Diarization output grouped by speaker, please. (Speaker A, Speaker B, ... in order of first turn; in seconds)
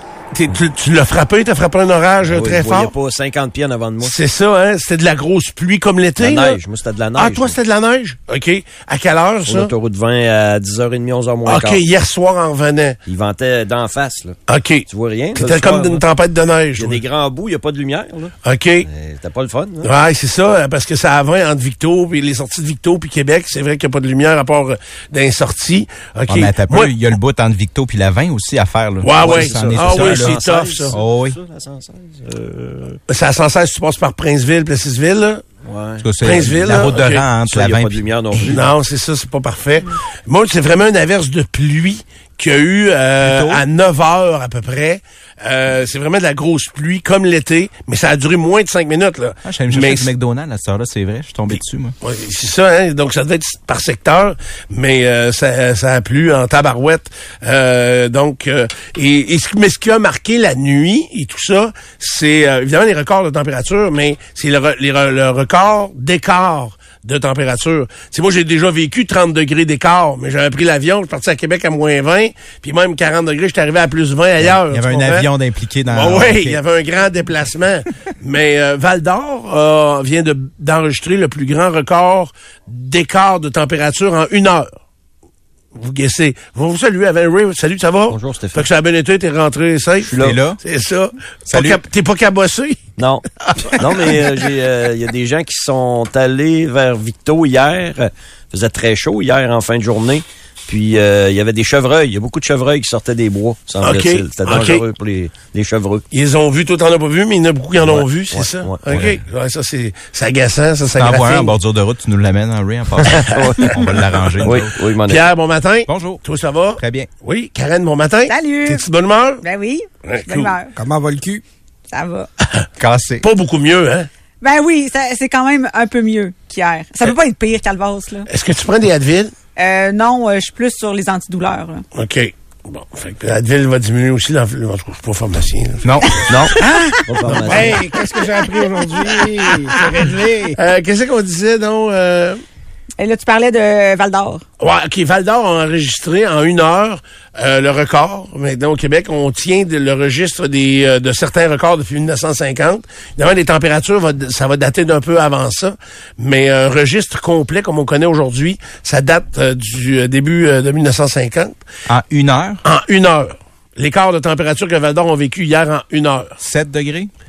Speaker A: 0.3-2.9, 4.0-6.6, 7.2-9.7, 11.5-13.0, 14.5-17.0, 18.4-18.9, 19.8-26.9, 29.0-30.9, 33.1-35.4, 36.2-37.2, 38.5-50.1, 51.6-75.3, 75.9-84.7, 85.8-92.8, 93.4-94.4, 103.8-104.8, 106.1-111.5, 114.4-119.4, 120.0-120.5, 123.2-124.1, 128.3-129.3, 132.0-136.1, 137.3-142.4, 144.6-161.6, 162.6-166.4
Speaker B: 2.2-4.2, 6.2-7.6, 9.5-11.8, 13.1-16.0, 16.8-18.3, 18.9-19.9, 29.1-33.0, 35.6-36.0, 37.5-38.6, 88.1-88.7, 90.1-90.4, 93.0-106.0, 107.8-109.0, 113.1-113.8, 114.4-115.2, 136.3-137.8
Speaker C: 26.3-31.4, 36.0-38.6, 43.2-43.6, 49.5-52.0, 74.4-76.6, 90.2-90.6, 91.5-91.8, 108.9-109.2, 111.0-114.7, 115.9-116.2, 116.8-117.1, 122.8-123.2, 135.8-136.3, 161.9-162.6, 166.4-167.1
Speaker D: 118.3-118.8, 119.4-120.7, 121.9-122.3, 124.4-128.3, 129.6-131.8, 143.0-144.4
Speaker E: 120.8-121.4, 137.3-140.6